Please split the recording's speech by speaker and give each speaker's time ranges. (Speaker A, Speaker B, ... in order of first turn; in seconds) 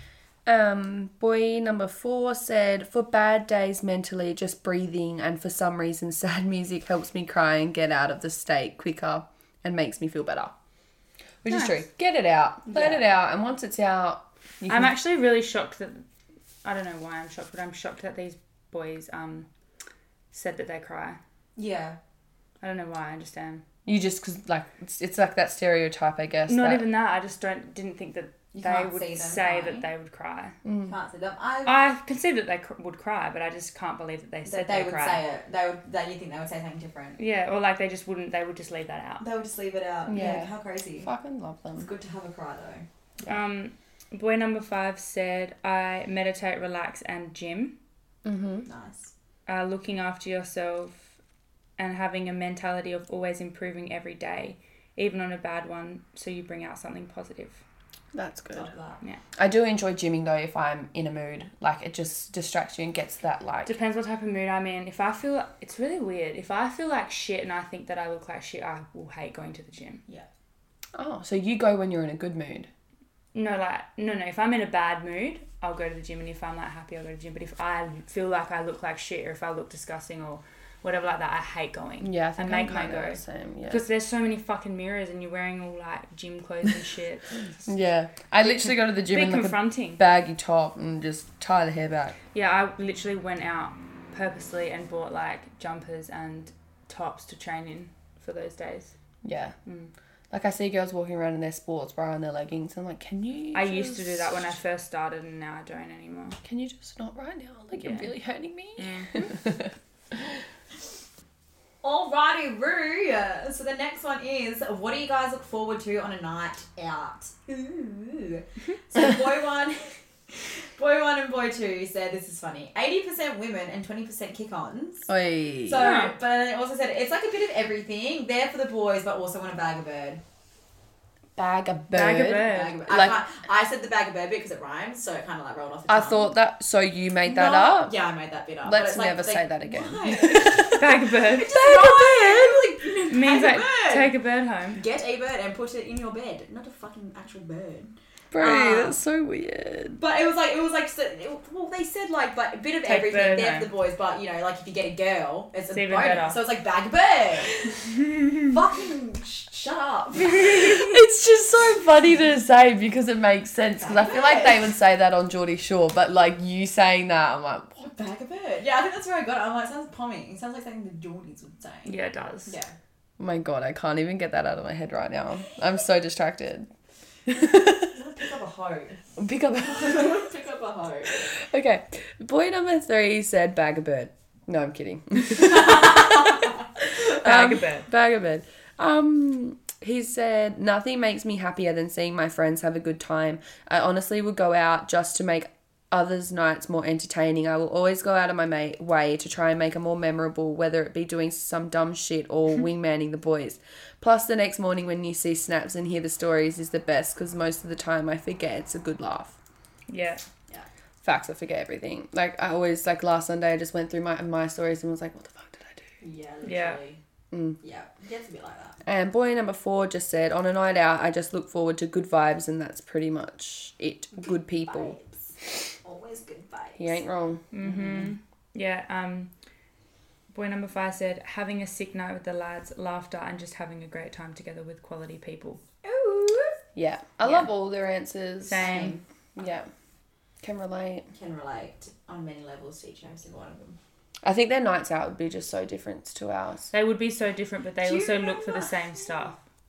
Speaker A: 0.5-10.5, 11.4-14.9, 23.9-26.9, 30.6-30.9, 40.1-41.9, 48.2-48.7, 58.1-58.7, 59.4-63.8, 71.0-72.7, 82.0-83.8, 87.7-92.2, 99.2-99.6, 100.3-104.6, 106.4-110.4, 125.1-125.9, 131.4-133.2, 135.9-137.9, 138.6-141.0, 141.5-142.6, 148.3-150.0, 160.4-167.8, 173.2-176.7, 177.3-177.9, 179.2-180.3, 181.1-209.3, 211.0-215.8, 217.3-217.6, 218.9-225.0, 226.8-227.4, 236.8-239.7, 240.4-241.1, 244.2-246.7
Speaker B: 11.5-11.8, 14.7-16.1, 16.6-19.5, 20.3-21.2, 22.6-23.6, 26.5-30.6, 31.7-35.2, 37.2-39.2, 43.3-47.8, 49.5-51.0, 51.8-57.6, 63.7-70.0, 73.3-87.4, 88.7-90.0, 92.3-98.9, 99.7-99.9, 103.5-106.4, 107.8-108.1, 108.8-109.3, 125.8-126.2, 131.9-132.8, 140.8-141.8, 143.1-144.8, 152.8-153.7, 155.7-156.4, 171.9-172.6, 187.1-187.9, 209.9-210.2, 216.4-216.8, 227.5-229.3, 230.3-235.6, 238.5-239.0, 246.7-249.4
Speaker C: 12.7-13.1, 21.6-22.0, 28.5-29.9, 30.9-31.8, 34.5-37.2, 39.2-41.1, 41.8-42.9, 48.7-49.1, 58.5-59.0, 111.8-125.1, 125.7-130.2, 132.4-136.3, 137.2-144.1, 144.7-149.0, 150.0-157.7, 158.4-160.9, 163.8-164.7, 167.8-171.9, 172.5-172.7, 177.9-179.0, 179.6-181.2, 216.0-217.0, 217.6-218.8, 224.7-225.3, 225.8-227.0, 227.6-228.1, 235.8-236.6, 238.6-239.0, 241.1-243.8, 247.8-249.3